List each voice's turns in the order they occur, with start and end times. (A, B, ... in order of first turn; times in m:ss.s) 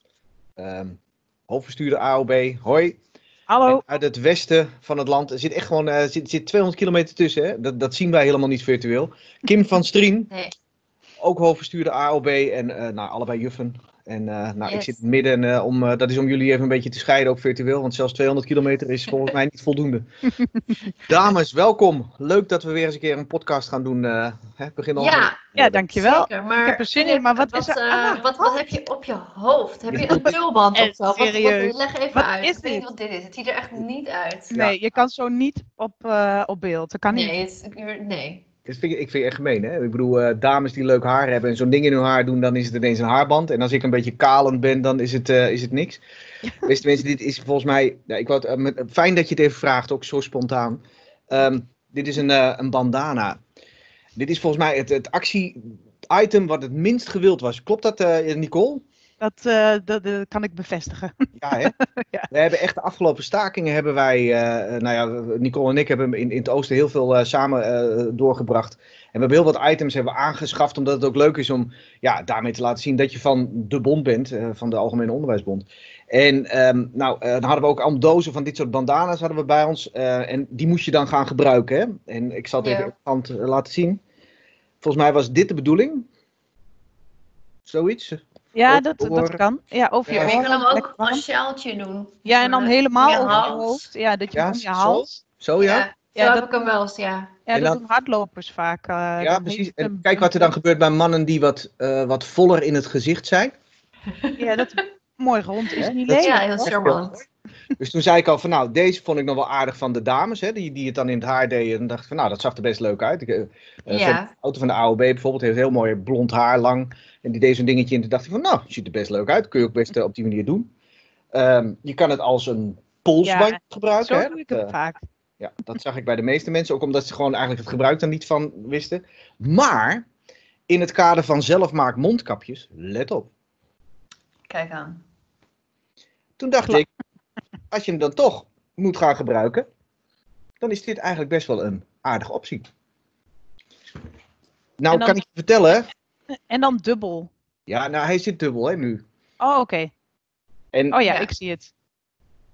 0:00.6-0:03.0 A
0:03.5-0:03.8 B
0:03.6-0:10.3 A
0:11.2-0:20.1 A
0:14.6-0:15.0 C
0:21.0-0:25.8 A
0:25.0-0:25.4 C
0:25.6-0:28.5 B
0:25.9-0:34.5 C
0:29.9-0:30.3 A
0:30.0-0:32.8 B
0:34.5-0:37.4 B
0:37.1-0:38.4 C
0:38.6-0:46.0 A
0:46.6-0:53.4 A
0:54.2-0:58.8 A
0:59.2-1:02.3 B
1:01.4-1:01.7 A
1:02.3-1:24.0 A
1:22.6-1:22.9 C
1:24.8-1:26.1 A
1:27.7-1:29.4 A
1:28.5-1:31.2 B
1:30.1-1:33.8 C
1:30.1-1:30.4 A
1:32.2-1:35.2 B
1:34.3-1:35.8 A
1:35.6-1:37.4 C
1:36.2-1:36.4 B
1:37.5-1:40.5 B
1:37.5-1:37.8 A
1:39.2-1:43.5 A
1:44.2-1:44.8 C
1:44.4-1:46.8 B
1:45.8-1:47.2 A
1:46.1-1:47.2 C
1:47.8-2:00.7 A
1:53.9-1:54.3 C
2:01.3-2:04.7 A
2:03.2-2:05.0 B
2:05.4-2:10.0 A
2:10.7-2:13.3 A
2:14.5-2:15.0 C
2:16.4-2:16.9 A
2:17.7-2:19.7 A
2:20.6-2:22.7 A
2:24.8-2:25.9 A
2:24.9-2:25.2 B
2:26.5-2:27.3 B
2:27.7-2:29.0 A
2:29.4-2:29.9 B
2:30.7-2:31.0 A
2:30.9-2:31.7 B